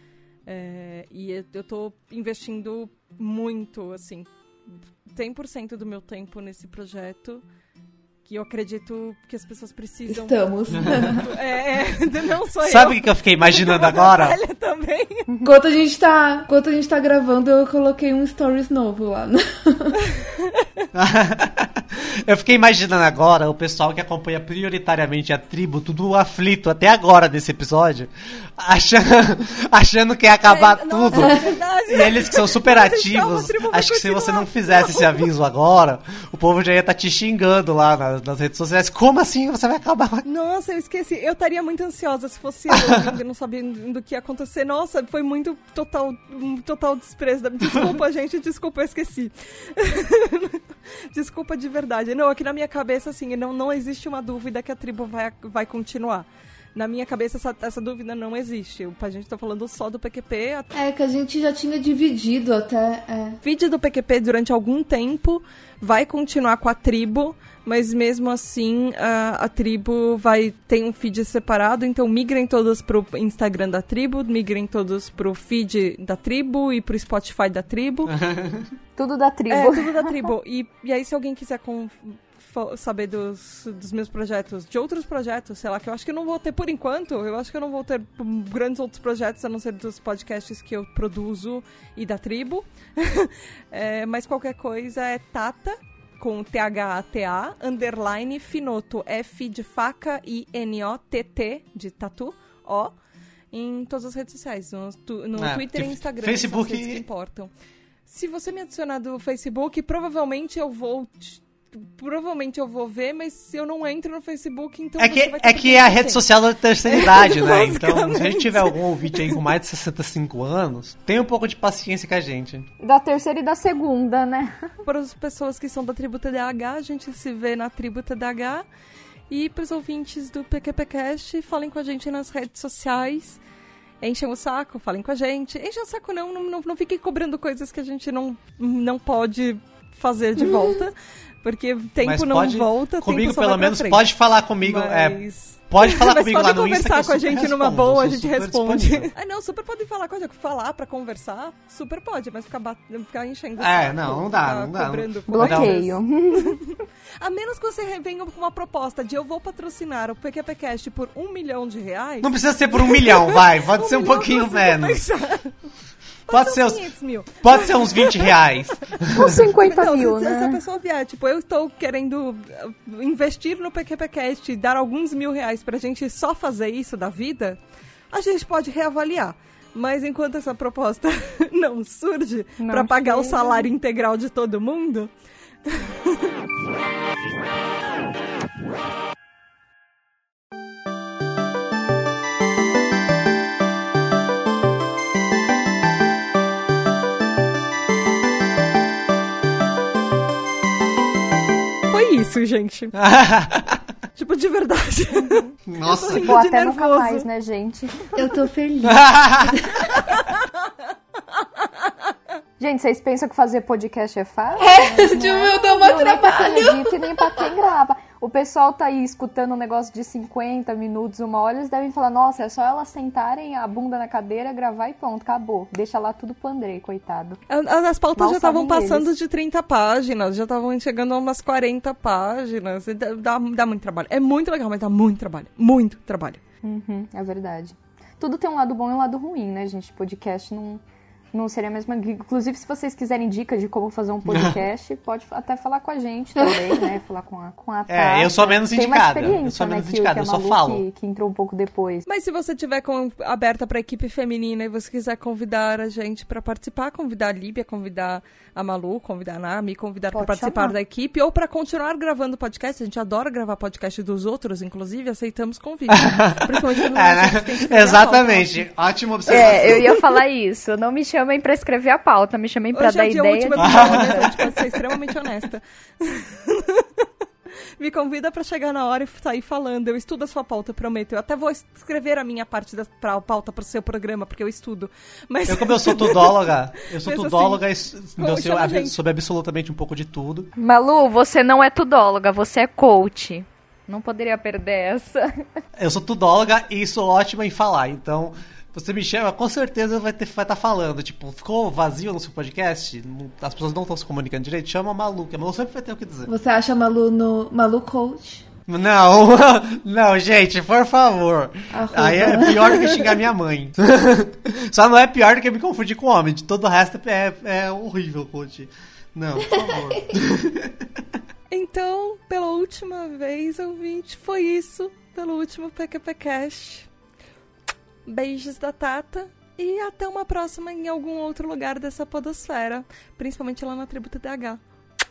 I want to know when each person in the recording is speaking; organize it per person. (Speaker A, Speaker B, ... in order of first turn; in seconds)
Speaker A: 0.5-7.4, 8.2-15.2, 20.1-20.6, 30.4-35.2, 40.2-60.7, 63.4-78.1, 79.5-102.9, 103.5-107.5, 108.1-116.2, 116.8-119.4, 124.8-128.6, 129.3-133.4, 134.0-144.0, 144.6-165.6, 166.3-168.3, 168.9-177.6, 178.1-185.1, 185.7-186.3, 201.9-202.9, 204.1-207.3, 210.1-210.5, 211.6-211.9, 227.5-236.4, 252.1-268.7, 272.7-277.0, 277.8-287.6, 288.2-288.9, 321.5-326.9, 328.1-334.6
Speaker B: 10.1-11.3, 15.4-20.0, 60.7-63.4, 208.2-210.0, 214.6-217.5, 306.3-308.5, 311.7-313.2, 319.5-319.8
Speaker C: 12.6-14.4, 20.9-40.2, 78.1-78.7, 105.4-107.0, 115.0-122.7, 142.0-149.1, 153.6-155.8, 162.2-165.0, 166.3-166.8, 167.4-169.4, 202.9-203.8, 205.7-206.3, 208.8-209.5, 247.9-250.8, 265.9-270.0, 273.6-274.3, 285.5-290.5, 295.8-306.3, 308.7-320.8
Speaker D: 79.0-80.2, 122.8-124.6, 155.3-156.7, 169.1-170.6, 182.6-183.7, 206.1-208.2, 212.6-227.4, 228.2-229.1, 236.6-240.8, 241.3-252.0, 260.1-260.7, 269.3-274.4, 290.6-295.4